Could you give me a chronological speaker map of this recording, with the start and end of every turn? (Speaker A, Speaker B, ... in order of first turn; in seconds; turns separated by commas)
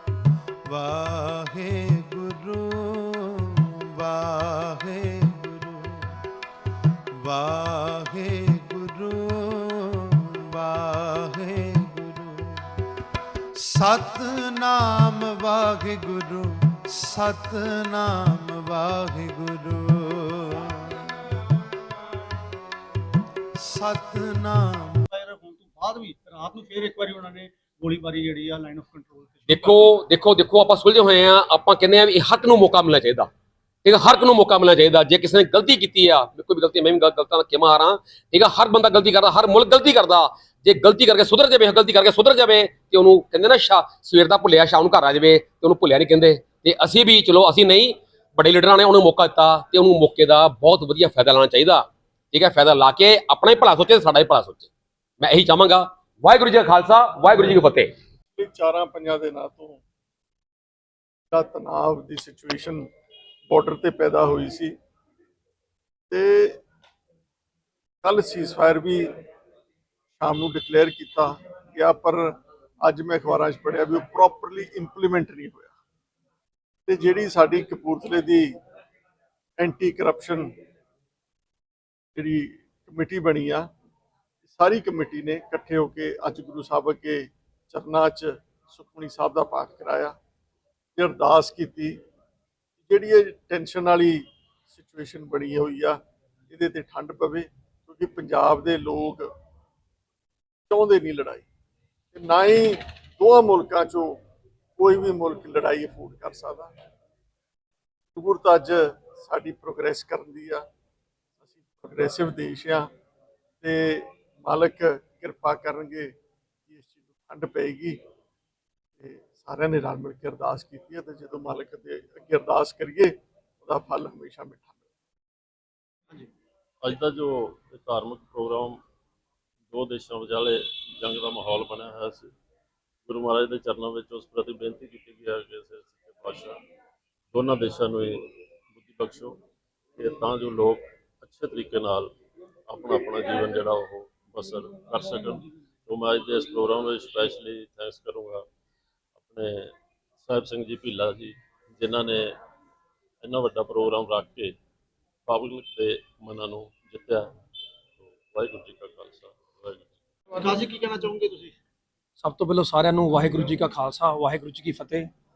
Speaker A: 0.7-6.1, Speaker A: 7.1-12.6, Speaker A: 13.6-21.0, Speaker A: 23.6-25.1, Speaker B: 25.1-29.9, Speaker C: 29.5-33.3, Speaker C: 33.8-57.9, Speaker D: 58.3-59.8, Speaker D: 61.3-62.9, Speaker D: 63.5-64.7, Speaker D: 66.1-66.6, Speaker D: 68.0-69.1, Speaker D: 70.2-72.3, Speaker D: 72.8-75.7, Speaker D: 76.9-78.5, Speaker D: 79.6-80.5, Speaker D: 82.1-83.7, Speaker D: 84.5-90.1, Speaker D: 91.0-92.0, Speaker D: 92.8-96.0, Speaker D: 96.5-99.3, Speaker D: 100.7-101.5, Speaker D: 102.1-104.2, Speaker D: 104.8-106.7, Speaker D: 108.1-110.6, Speaker D: 111.7-112.9, Speaker D: 113.6-116.1, Speaker D: 116.7-118.0, Speaker D: 119.0-124.8, Speaker E: 126.8-128.8, Speaker E: 129.7-132.3, Speaker E: 133.1-136.6, Speaker E: 137.3-139.4, Speaker E: 140.0-142.1, Speaker E: 142.7-148.4, Speaker E: 149.2-152.3, Speaker E: 153.2-154.5, Speaker E: 155.3-157.3, Speaker E: 158.0-159.9, Speaker B: 160.3-161.5, Speaker F: 162.2-165.1